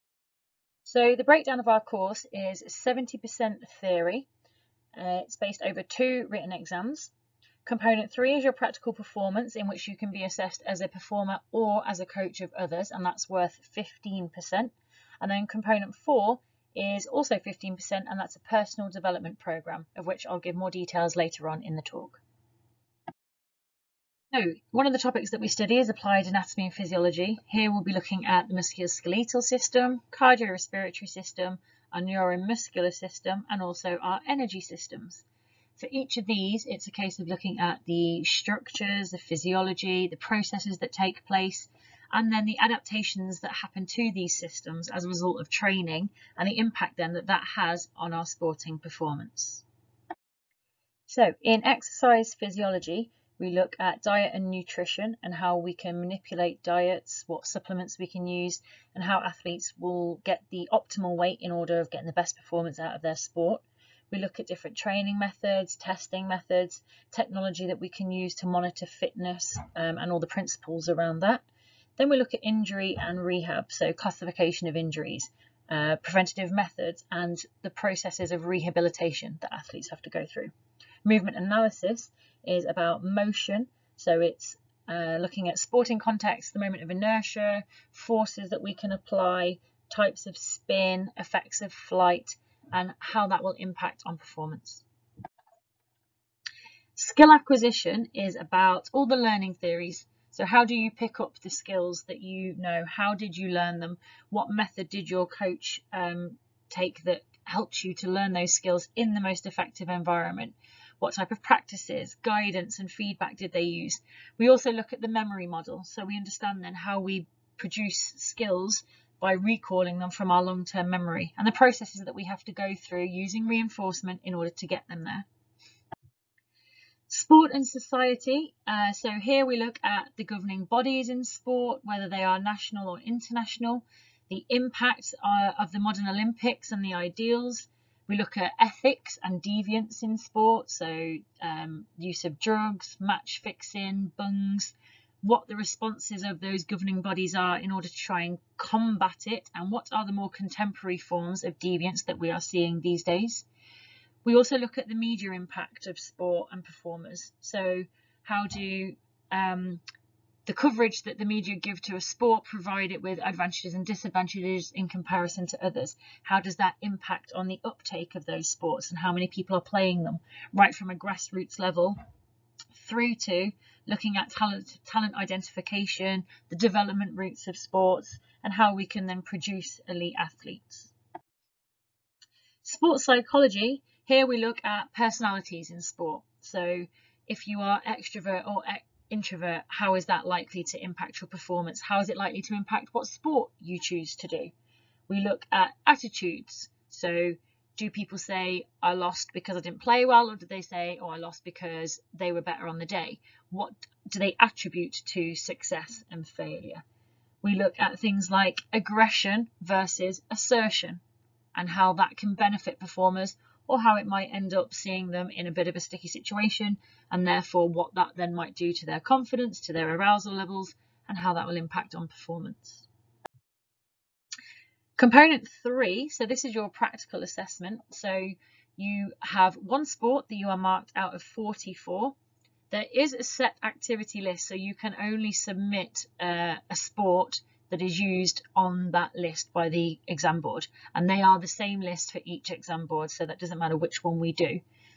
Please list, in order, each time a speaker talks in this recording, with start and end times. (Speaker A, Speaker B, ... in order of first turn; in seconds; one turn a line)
Speaker A: 0.8-4.3
Speaker A: 4.9-7.1
Speaker A: 7.7-22.2
Speaker A: 24.3-35.2
Speaker A: 35.8-49.6
Speaker A: 51.1-71.4
Speaker A: 72.0-80.5
Speaker A: 81.0-94.8
Speaker A: 97.0-125.2
Speaker A: 127.1-153.4
Speaker A: 154.2-159.8
Speaker A: 160.4-172.0
Speaker A: 172.7-180.9
Speaker A: 182.6-194.5
Speaker A: 195.1-206.8
Speaker A: 207.4-211.0
Speaker A: 211.5-222.8
Speaker A: 225.0-232.2
Speaker A: 232.7-244.6